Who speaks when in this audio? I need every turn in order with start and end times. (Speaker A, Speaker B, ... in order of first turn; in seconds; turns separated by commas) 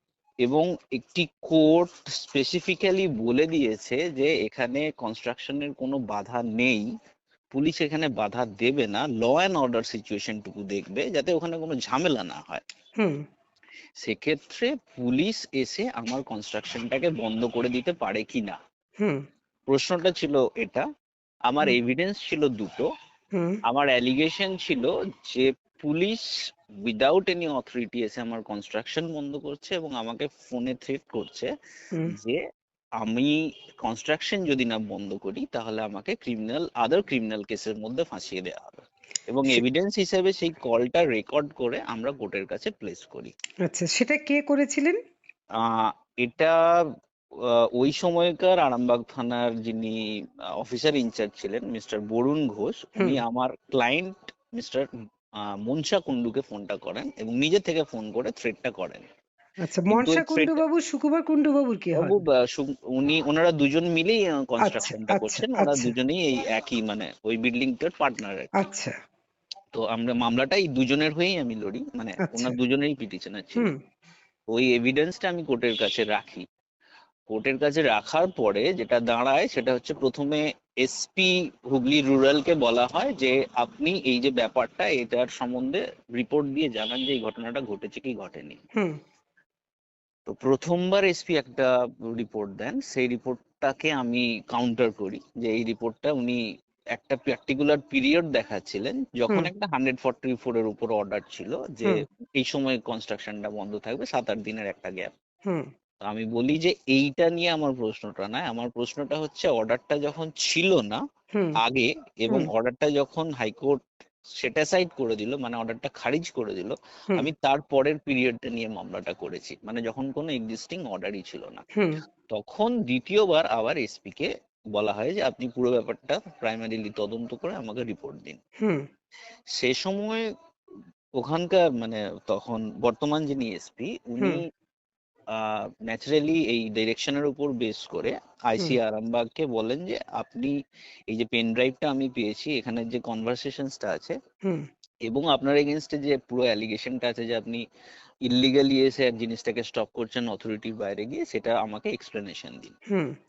Speaker A: 0.5-6.8, Speaker A: 7.5-12.6, Speaker A: 14.0-18.6, Speaker A: 19.7-20.8, Speaker A: 21.5-22.9, Speaker A: 23.7-26.2, Speaker A: 26.9-31.5, Speaker A: 32.0-32.4, Speaker A: 33.0-43.3, Speaker B: 43.7-45.0, Speaker A: 45.6-46.5, Speaker A: 47.8-49.9, Speaker A: 50.6-54.9, Speaker A: 55.6-59.0, Speaker B: 59.6-62.2, Speaker A: 59.9-60.6, Speaker A: 61.9-68.5, Speaker B: 64.6-65.9, Speaker B: 68.6-68.9, Speaker A: 69.7-73.7, Speaker B: 72.3-72.5, Speaker A: 74.5-76.4, Speaker A: 77.3-88.6, Speaker A: 90.3-96.4, Speaker A: 97.0-105.1, Speaker A: 106.0-111.0, Speaker A: 111.6-113.8, Speaker A: 114.4-121.7, Speaker A: 122.3-128.4, Speaker A: 129.6-130.2, Speaker A: 131.2-134.5, Speaker A: 135.3-140.5, Speaker A: 141.1-144.1, Speaker A: 145.1-147.6, Speaker A: 148.3-152.7